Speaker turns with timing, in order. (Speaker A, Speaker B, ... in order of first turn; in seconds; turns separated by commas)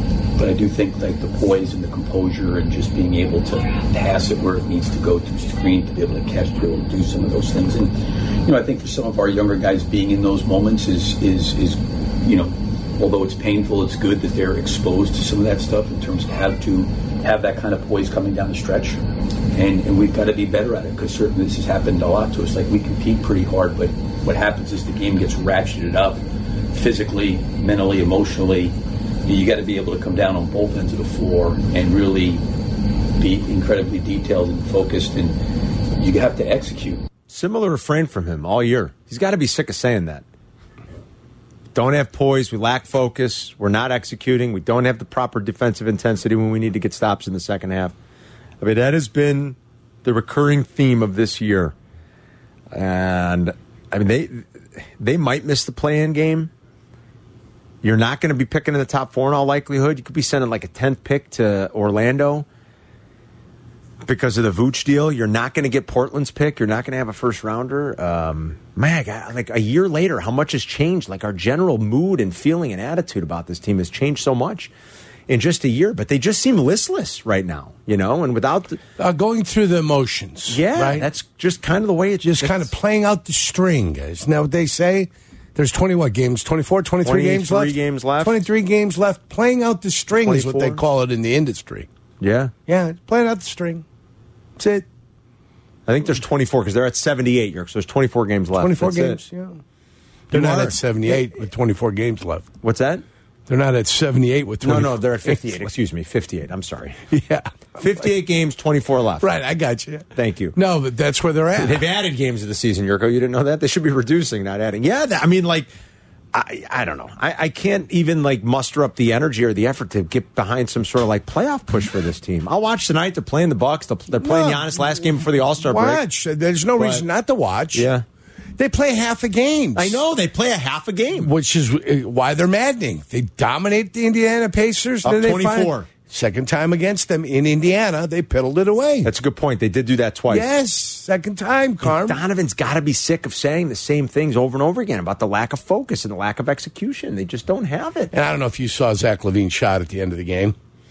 Speaker A: 0.3-32.4, Speaker A: 33.2-35.4, Speaker A: 36.0-37.0, Speaker B: 37.3-40.2, Speaker B: 41.7-47.9, Speaker B: 48.6-51.7, Speaker B: 52.7-56.5, Speaker B: 57.8-62.5, Speaker B: 64.0-74.7, Speaker B: 75.3-78.8, Speaker C: 79.0-81.1, Speaker B: 80.5-82.7, Speaker C: 82.2-91.9, Speaker B: 87.0-88.4, Speaker B: 90.2-90.8, Speaker B: 92.2-92.5, Speaker C: 92.7-93.8, Speaker C: 94.6-94.8, Speaker B: 95.9-99.2, Speaker C: 98.5-99.6, Speaker B: 100.3-101.2, Speaker C: 100.3-102.5, Speaker B: 102.6-103.0, Speaker C: 103.5-105.5, Speaker B: 104.6-107.1, Speaker C: 107.1-107.5, Speaker B: 107.8-109.3, Speaker C: 109.2-111.8, Speaker B: 110.1-110.5, Speaker B: 111.5-115.7, Speaker B: 116.3-126.0, Speaker C: 124.2-124.8, Speaker C: 125.6-127.9, Speaker B: 126.8-127.0, Speaker B: 127.7-128.0, Speaker C: 128.6-130.0, Speaker B: 129.8-131.3, Speaker C: 131.2-139.1, Speaker B: 135.0-135.9, Speaker B: 139.0-140.5, Speaker C: 140.3-142.2, Speaker B: 141.8-148.1, Speaker C: 148.1-150.5